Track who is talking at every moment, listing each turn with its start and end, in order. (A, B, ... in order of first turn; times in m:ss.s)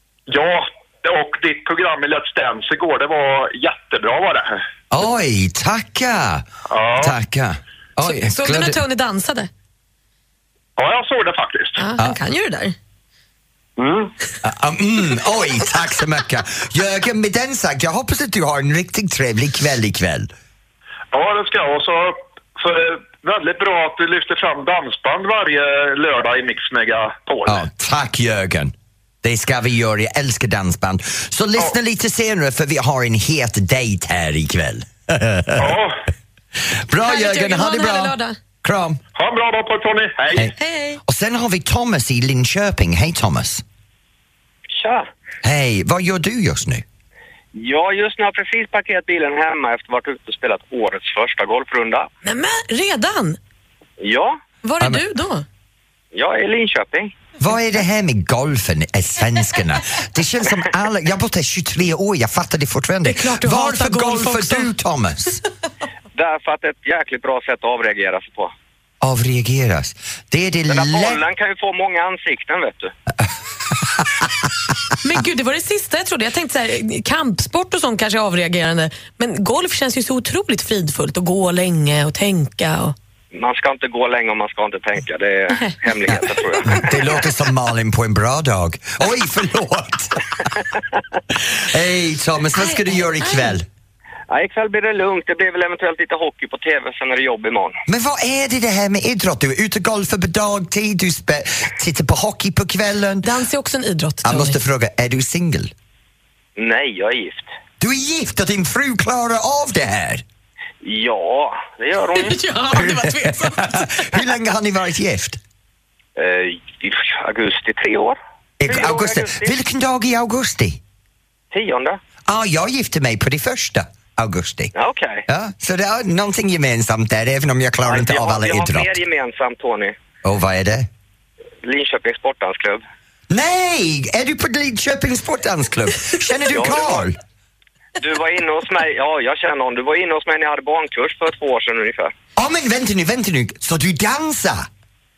0:00.3-0:04.6 A
0:04.9-0:08.8 B
0:06.7-0:07.2 A
0:08.0-0:09.5 C
0:10.8-0:11.8 A
0:11.8-0:12.8 C
0:13.8-0:14.1 A
0:14.4-0:20.3 B
0:21.1-0:27.6 A
0:27.5-0:35.8 B
0:35.6-0:35.9 A
0:36.7-0:39.0 B
0:37.0-0:38.4 C
0:39.2-0:40.5 A
0:40.6-0:41.0 C
0:41.0-0:43.6 B
0:44.7-0:45.1 D
0:45.4-0:46.8 B
0:47.5-0:52.1 D
0:52.2-0:53.4 C
0:54.0-0:54.4 D
0:54.6-0:55.4 C
0:56.1-0:57.2 D
0:57.4-1:05.4 B
1:03.0-1:04.7 C
1:06.1-1:08.5 D
1:09.0-1:11.2 B
1:10.7-1:12.9 D
1:13.8-1:14.3 B
1:15.0-1:23.0 C
1:23.3-1:27.1 D
1:26.7-1:30.5 B
1:31.3-1:33.7 B
1:32.6-1:33.5 C
1:34.3-1:37.8 D
1:37.9-1:43.3 B
1:43.2-1:44.6 C
1:44.2-1:45.7 B
1:46.6-1:47.5 D
1:47.8-1:50.2 B
1:50.8-1:52.4 D
1:52.2-1:54.1 C
1:52.7-1:55.4 B
1:56.2-1:59.6 D
1:58.6-2:00.8 B
2:01.5-2:02.0 D
2:02.3-2:04.7 B
2:04.7-2:05.2 D
2:05.3-2:09.0 B
2:07.8-2:10.0 D
2:10.2-2:10.9 B
2:11.6-2:12.8 D
2:13.3-2:17.2 B
2:16.5-2:17.0 D
2:18.0-2:22.1 D
2:22.4-2:24.7 B